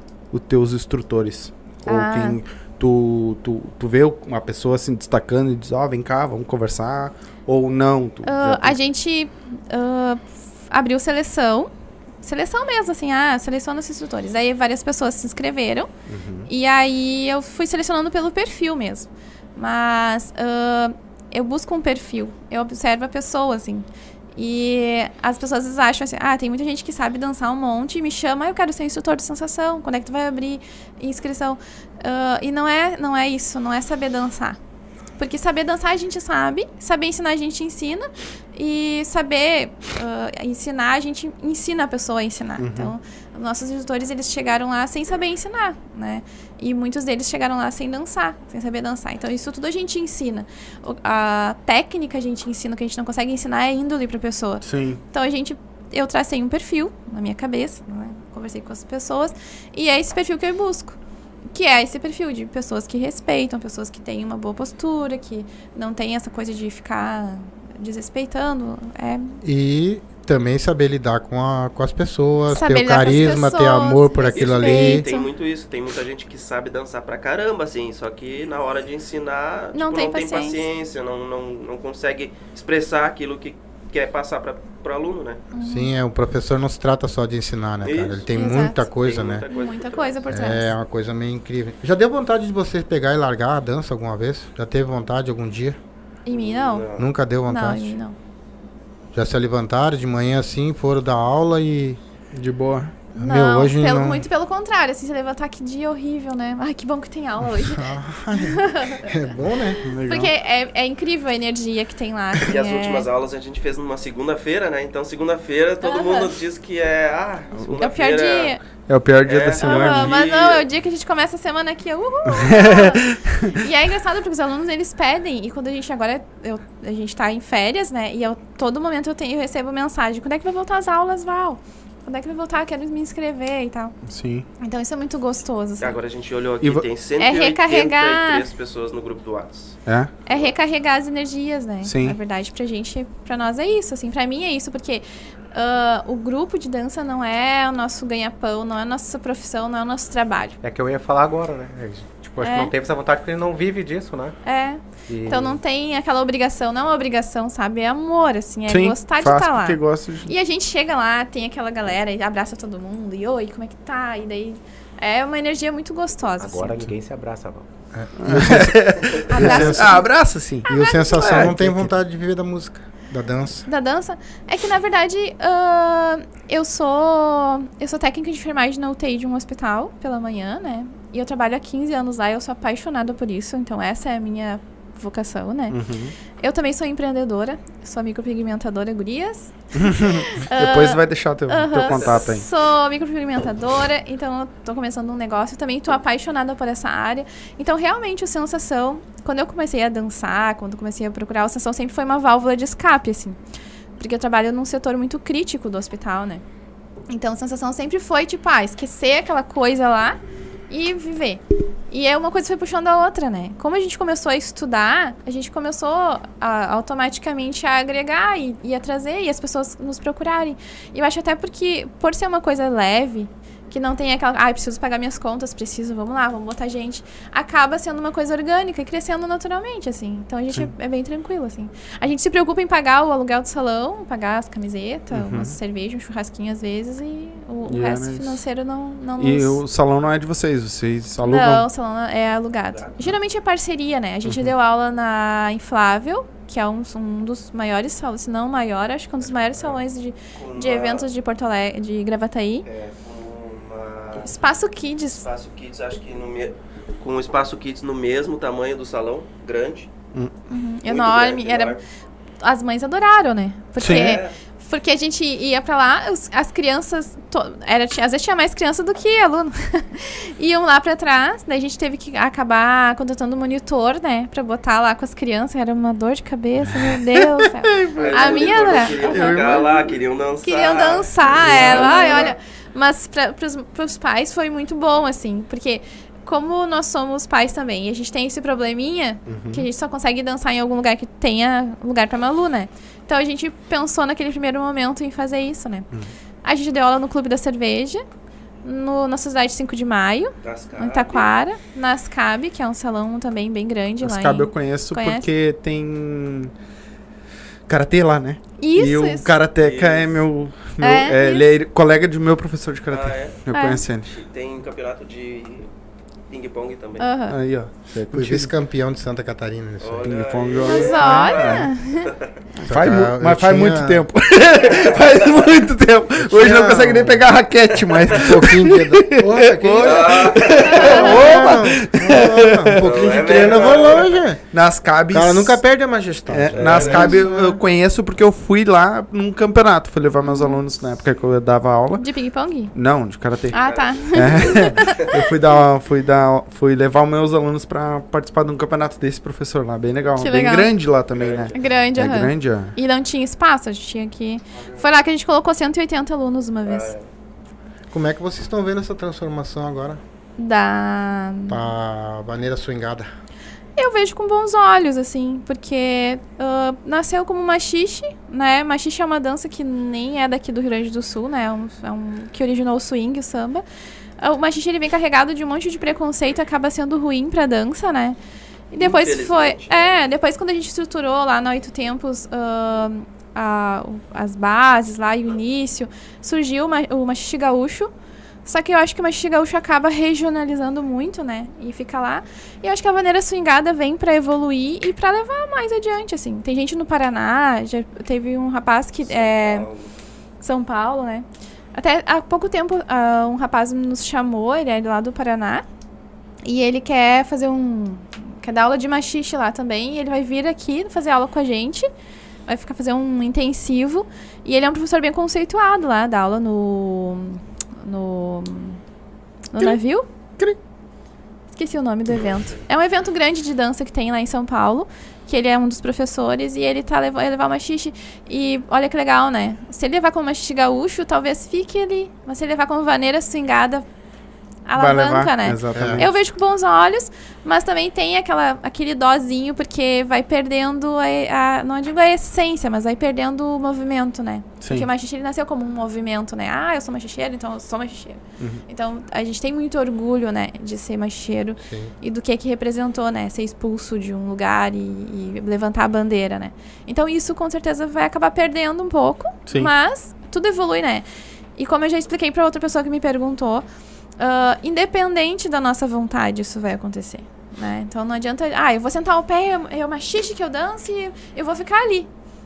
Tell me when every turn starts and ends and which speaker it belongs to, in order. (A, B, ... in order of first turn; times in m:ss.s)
0:00.3-0:08.8 A
0:01.8-0:02.4 B
0:08.2-0:11.7 B
0:12.2-0:15.9 B
0:16.1-0:16.5 A
0:16.5-0:34.6 B
0:35.2-1:01.0 B
0:42.6-0:42.9 A
0:54.6-0:55.0 A
1:01.5-1:09.4 B
1:09.4-1:15.0 C
1:12.5-1:15.3 B
1:14.3-1:25.4 D
1:19.7-1:20.6 B
1:25.5-1:25.9 B
1:25.6-1:29.4 C
1:27.8-1:28.3 D
1:28.3-1:28.9 B
1:28.9-1:30.2 D
1:29.5-1:30.7 B
1:30.3-1:35.8 C
1:36.2-1:36.9 B
1:36.3-1:37.1 D
1:37.0-1:38.0 C
1:37.4-1:38.2 B
1:39.1-1:42.0 C
1:42.3-1:43.1 A
1:43.1-1:44.2 C
1:43.2-1:49.1 B
1:47.6-1:49.8 C
1:49.8-1:50.3 A
1:50.0-1:53.0 B
1:52.4-1:58.6 D
1:55.8-1:56.3 B
1:57.8-1:58.6 B
1:58.9-2:00.1 A
1:59.2-2:00.6 D
1:59.6-2:14.0 B
2:02.3-2:03.6 A
2:14.1-2:14.4 A
2:14.6-2:16.0 B
2:15.8-2:20.5 D
2:17.2-2:18.4 B
2:19.8-2:20.1 A
2:20.3-2:30.6 B
2:21.8-2:22.2 A
2:30.6-2:34.4 E
2:32.4-2:32.7 B
2:34.4-2:46.7 B
2:35.1-2:35.6 E
2:38.7-2:40.3 A
2:46.4-2:47.6 E
2:47.9-2:50.0 C
2:48.2-2:50.7 A
2:49.3-2:50.1 B
2:50.6-2:51.4 B
2:50.6-2:53.7 C
2:51.2-2:51.9 A
2:53.6-3:05.8 B
3:05.7-3:06.1 A
3:06.4-3:23.4 B
3:09.8-3:12.4 A
3:11.9-3:12.2 D
3:24.0-3:26.4 B
3:27.1-3:30.2 B
3:30.7-3:59.6 B
3:55.1-3:55.5 A
3:57.6-3:58.4 A
3:59.2-4:01.7 A
4:01.2-4:12.6 B
4:02.7-4:03.1 D
4:04.2-4:04.5 A
4:10.4-4:11.1 D
4:12.6-4:14.3 D
4:14.2-4:15.2 B
4:15.1-4:19.9 D
4:20.5-4:21.8 B
4:20.8-4:21.8 D
4:22.4-4:39.7 B
4:23.8-4:24.2 A
4:23.8-4:24.3 D
4:36.7-4:39.9 A
4:38.0-4:42.3 D
4:40.4-4:55.9 B
4:41.4-4:42.1 A
4:49.3-4:49.7 A
4:56.4-4:58.0 B
4:58.6-5:05.3 B
5:00.4-5:01.3 D
5:04.0-5:06.5 A
5:07.7-5:14.1 A
5:08.6-5:09.3 B
5:09.6-5:10.2 D
5:10.8-5:11.4 B
5:12.9-5:13.4 D
5:13.5-5:13.8 B
5:14.0-5:15.7 D
5:16.3-5:17.1 D
5:17.0-5:17.4 B
5:17.3-5:18.5 A
5:18.1-5:20.2 C
5:19.8-5:22.3 D
5:20.0-5:21.7 A
5:20.6-5:22.1 B
5:21.1-5:21.3 C
5:22.6-5:32.8 A
5:22.7-5:24.1 C
5:24.7-5:25.4 D
5:26.2-5:27.2 C
5:27.9-5:28.2 D
5:28.1-5:34.4 C
5:29.6-5:31.3 D
5:30.7-5:31.3 B
5:32.8-5:34.2 D
5:34.5-5:35.6 A
5:35.1-5:37.5 C
5:36.3-5:42.1 A
5:36.5-5:37.2 D
5:37.0-5:37.5 B
5:40.2-5:40.6 B
5:42.0-5:42.7 B
5:42.7-5:52.7 A
5:43.5-5:45.2 B
5:43.6-5:45.1 D
5:50.2-5:50.7 B
5:51.1-5:51.6 D
5:51.5-5:56.9 B
5:54.6-5:54.8 D
5:56.6-5:57.1 D
5:57.9-6:00.0 C
6:00.4-6:01.6 B
6:01.5-6:03.1 C
6:03.8-6:13.6 B
6:14.2-6:18.2 B
6:18.7-6:27.9 B
6:18.8-6:20.0 D
6:28.4-6:39.7 B
6:39.0-6:39.9 D
6:40.4-6:45.6 B
6:46.4-6:51.9 B
6:52.5-6:58.8 B
6:59.5-7:00.0 B
7:01.5-7:13.8 B
7:14.7-7:41.0 B
7:14.8-7:16.1 A
7:15.7-7:16.0 C
7:24.6-7:24.9 A
7:31.6-7:31.9 C
7:39.5-7:39.7 A
7:41.6-7:43.6 B
7:44.2-7:52.1 B